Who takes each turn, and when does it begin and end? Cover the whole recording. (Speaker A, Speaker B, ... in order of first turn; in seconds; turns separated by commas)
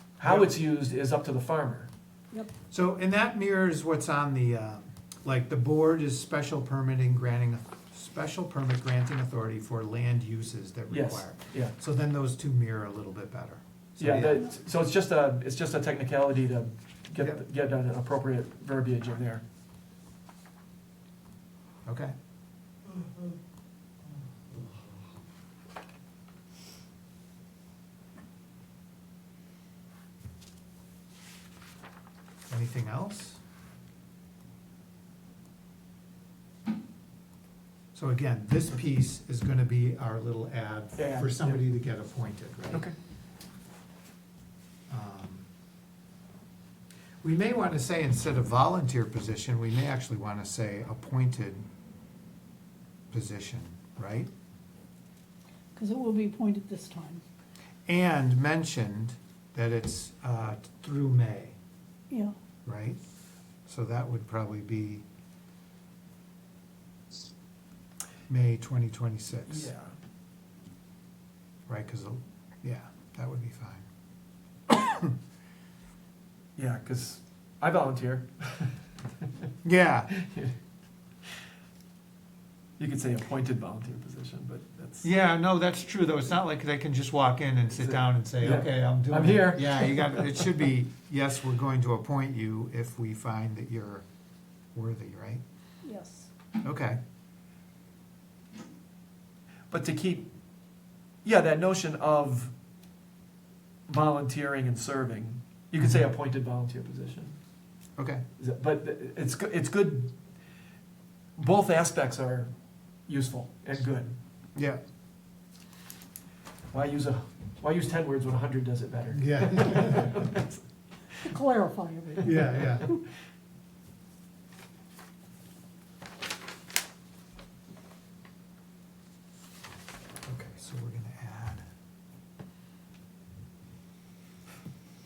Speaker A: 0.2-1.9, Speaker B: 0.2-0.5, Speaker B: 2.7-14.4, Speaker A: 10.9-11.7, Speaker A: 14.0-19.4, Speaker B: 21.9-22.1, Speaker B: 32.5-33.4, Speaker B: 37.9-42.9, Speaker A: 41.0-41.6, Speaker B: 44.9-45.5, Speaker B: 47.2-51.6, Speaker B: 53.1-54.3, Speaker C: 55.7-57.2, Speaker B: 57.9-61.6, Speaker B: 62.6-63.0, Speaker B: 63.6-65.0, Speaker B: 68.3-69.7, Speaker A: 69.5-70.0, Speaker B: 71.7-73.8, Speaker B: 74.7-75.2, Speaker A: 76.5-79.3, Speaker B: 79.6-80.1, Speaker A: 80.1-80.5, Speaker A: 82.8-85.1, Speaker B: 85.0-94.0, Speaker A: 87.8-90.5, Speaker B: 94.7-95.4, Speaker C: 95.8-96.3, Speaker B: 96.6-97.0, Speaker A: 99.7-100.3, Speaker A: 101.2-102.5, Speaker A: 103.9-107.3, Speaker B: 108.0-108.2, Speaker A: 108.4-110.1, Speaker A: 111.4-112.5, Speaker A: 113.1-114.2, Speaker B: 114.5-114.8, Speaker A: 116.7-120.6, Speaker B: 119.1-120.2, Speaker C: 121.2-123.0, Speaker B: 122.2-122.9, Speaker B: 130.2-131.6